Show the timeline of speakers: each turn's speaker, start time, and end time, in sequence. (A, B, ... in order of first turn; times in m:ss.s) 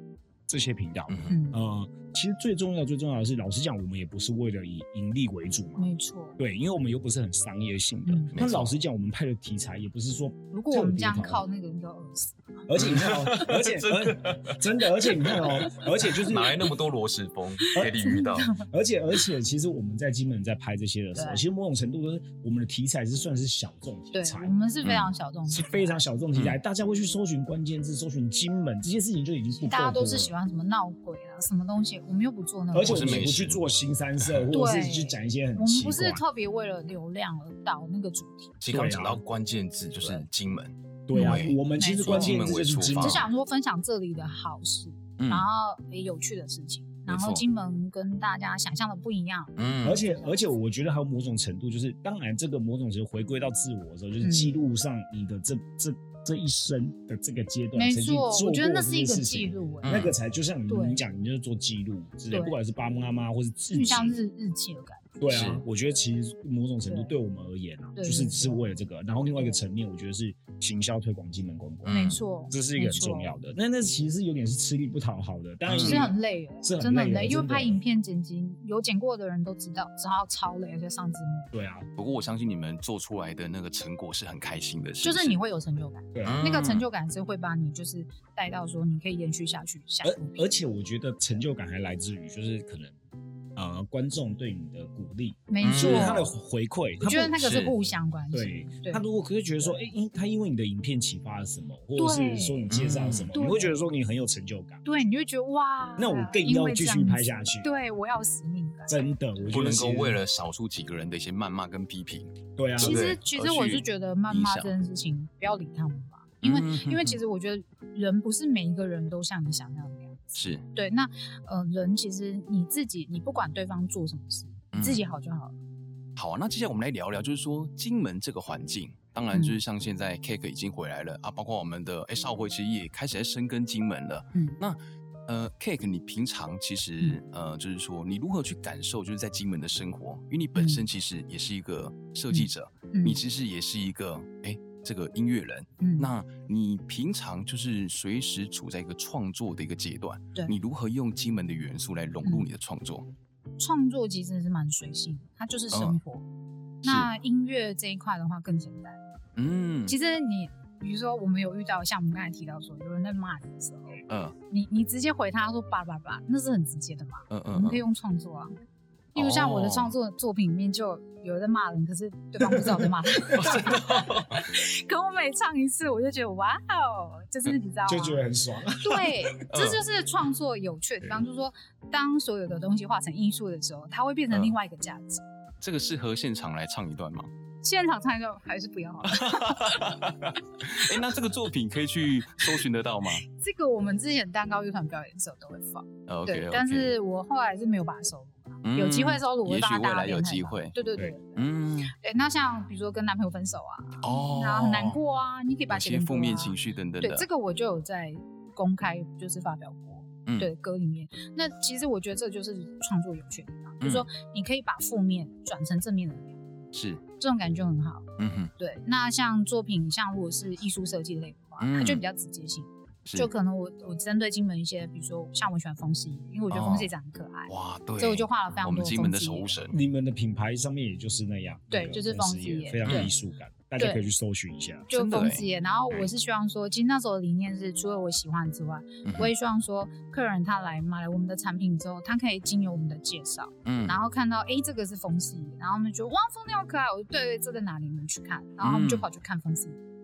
0:00.5-0:05.9 A
0:01.1-0:01.3 B
0:01.3-0:01.6 C
0:05.8-0:06.4 C
0:06.4-0:11.4 A
0:08.0-0:08.3 C
0:08.3-0:08.7 B
0:10.5-0:12.7 C
0:12.7-0:16.7 A
0:12.8-0:14.6 B
0:15.2-0:18.5 B
0:17.6-0:18.6 C
0:17.8-0:24.5 A
0:21.2-0:21.4 C
0:24.1-0:26.0 C
0:24.8-0:25.1 B
0:25.5-0:30.3 A
0:29.6-0:33.2 C
0:32.7-0:36.2 A
0:32.8-0:33.6 B
0:34.2-0:34.5 B
0:34.5-0:38.6 C
0:38.6-0:43.2 B
0:38.7-0:39.2 A
0:41.1-0:43.3 A
0:41.1-0:49.5 C
0:45.2-0:45.5 B
0:47.1-0:47.4 B
0:49.6-0:50.0 B
0:49.8-1:04.2 A
0:54.2-0:54.6 C
0:57.7-1:00.1 C
0:59.8-1:00.1 B
1:00.7-1:01.0 C
1:03.7-1:05.3 C
1:05.2-1:17.8 A
1:05.3-1:05.6 B
1:06.9-1:07.1 C
1:08.0-1:08.6 C
1:11.8-1:12.2 B
1:11.9-1:13.3 C
1:15.7-1:16.0 B
1:15.8-1:21.5 C
1:21.5-1:21.9 A
1:22.0-1:25.4 B
1:25.0-1:30.4 C
1:26.1-1:26.5 A
1:26.2-1:26.9 B
1:30.0-1:32.9 A
1:33.6-1:37.4 A
1:35.5-1:36.3 C
1:35.6-1:36.2 B
1:37.0-1:39.0 C
1:37.4-1:37.7 B
1:38.3-1:44.8 A
1:39.6-1:39.9 C
1:42.0-1:42.6 C
1:42.7-1:43.3 B
1:43.3-1:43.8 C
1:44.8-1:49.1 C
1:46.0-1:47.7 A
1:48.9-1:50.2 A
1:49.5-1:54.7 B
1:52.6-1:53.1 A
1:52.8-2:05.6 C
1:56.4-1:57.2 B
2:00.3-2:00.6 B
2:04.7-2:05.0 B
2:06.2-2:33.1 B
2:09.3-2:09.6 C
2:20.6-2:20.8 C
2:22.3-2:23.2 C
2:25.8-2:26.1 C
2:33.6-2:36.2 C
2:35.7-2:36.0 B
2:36.8-2:39.0 C
2:39.4-2:39.9 B
2:39.9-2:48.5 C
2:44.1-2:44.3 B
2:47.3-2:47.8 B
2:49.1-2:49.9 B
2:49.1-2:58.2 C
2:52.5-2:53.7 A
2:53.4-2:54.3 B
2:57.8-2:59.2 A
2:58.8-3:05.2 C
2:59.5-2:59.8 B
3:05.6-3:07.3 B
3:07.6-3:11.0 C
3:09.1-3:13.2 B
3:13.3-3:36.4 C
3:16.1-3:16.9 B
3:18.6-3:20.8 B
3:21.4-3:21.9 B
3:24.0-3:25.0 B
3:25.7-3:27.2 B
3:30.2-3:30.5 B
3:33.8-3:34.1 B
3:36.7-3:37.0 B
3:37.2-3:38.0 C
3:38.2-3:38.5 B
3:38.6-3:49.6 C
3:41.6-3:42.0 B
3:43.0-3:43.3 B
3:46.5-3:46.9 B
3:47.5-3:49.7 B
3:49.7-3:55.1 A
3:51.7-3:53.1 C
3:53.8-3:54.0 C
3:54.9-4:09.8 C
3:55.0-3:55.4 B
3:59.0-3:59.3 B
4:03.6-4:04.0 B
4:08.6-4:09.0 B